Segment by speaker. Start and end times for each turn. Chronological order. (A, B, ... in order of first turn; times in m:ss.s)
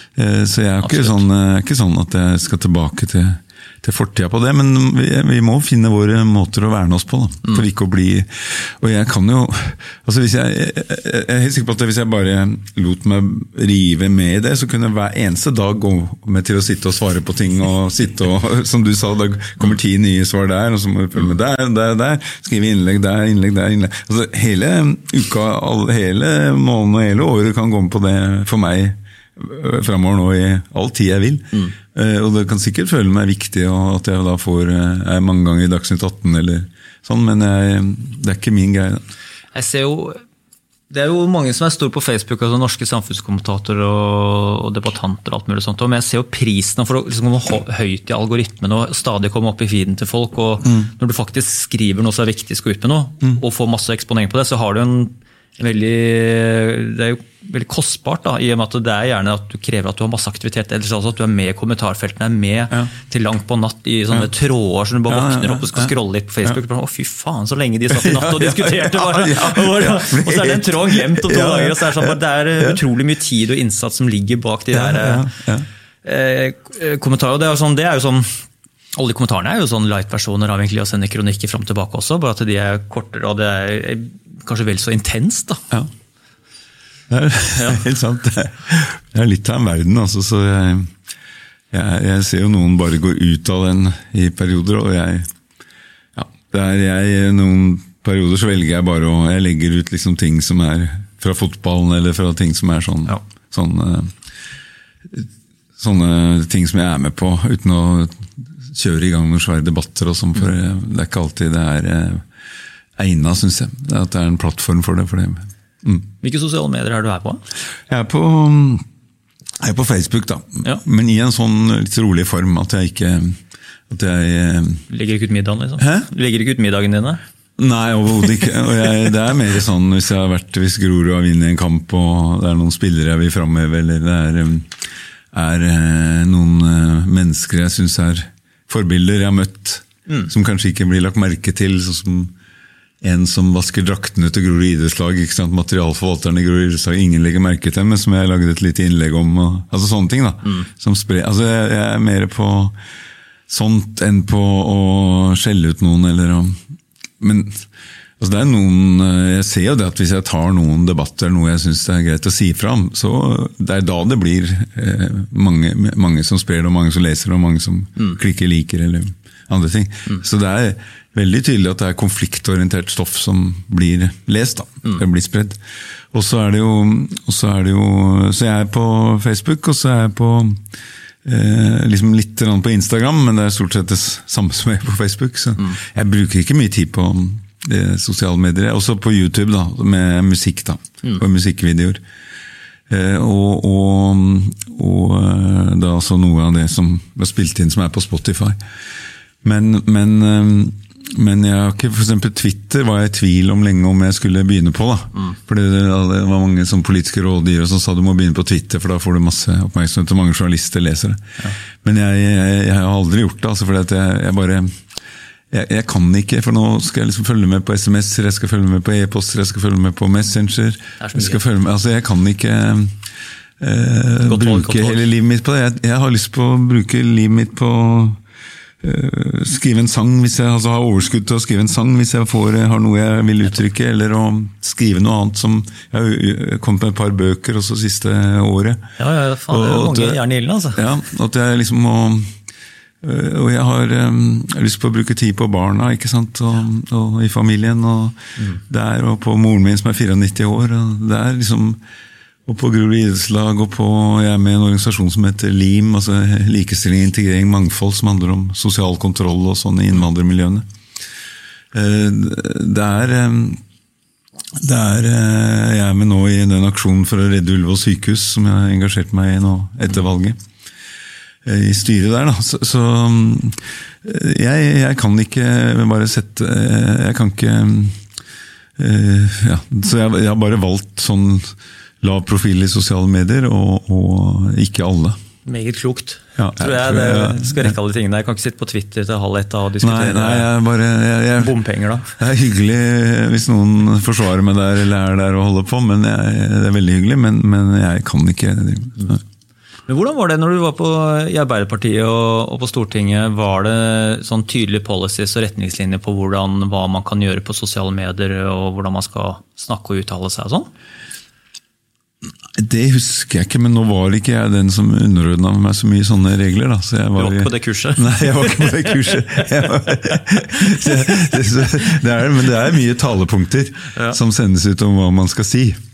0:00.2-0:39.0 A
0:00.8-0:01.2 B
0:39.5-0:40.2 B
0:40.9-1:15.3 B
0:50.6-0:50.9 A
1:05.1-1:06.6 A
1:07.9-1:12.8 A
1:14.7-1:15.7 A
1:16.0-1:18.4 B
1:19.0-1:25.6 B
1:27.1-1:30.9 A
1:31.7-1:35.3 A
1:36.2-1:44.1 A
1:45.8-1:52.2 A
1:53.0-1:56.1 A
1:56.2-1:57.4 B
1:57.9-1:58.8 A
1:59.6-2:03.4 A
2:03.9-2:04.8 A
2:04.9-2:07.2 B
2:05.8-2:06.1 A
2:07.6-2:14.7 A
2:15.3-2:22.3 A
2:23.0-2:32.8 A
2:33.5-2:36.6 A
2:37.2-2:37.6 A
2:38.2-2:55.6 A
2:56.1-3:00.6 A
3:01.2-3:12.0 A
3:12.9-3:18.6 A
3:19.4-3:31.2 A
3:31.8-3:34.7 A
3:35.5-3:43.0 A
3:41.0-3:41.4 B
3:43.6-3:48.2 A
3:44.2-3:45.1 B
3:48.8-3:58.8 A
3:59.0-4:00.8 B
3:59.5-4:00.2 A
4:00.8-4:02.3 A
4:03.0-4:08.2 A
4:08.7-4:11.8 A
4:12.5-4:20.6 A
4:21.7-4:23.6 A
4:24.6-4:30.4 A
4:31.4-4:38.0 A
4:38.8-4:45.2 A
4:45.4-4:50.5 B
4:46.4-4:47.8 A
4:49.8-4:51.6 A
4:51.4-4:52.1 B
4:52.2-4:59.2 A
4:59.9-5:10.7 B
5:12.6-5:25.8 A
5:17.2-5:18.2 B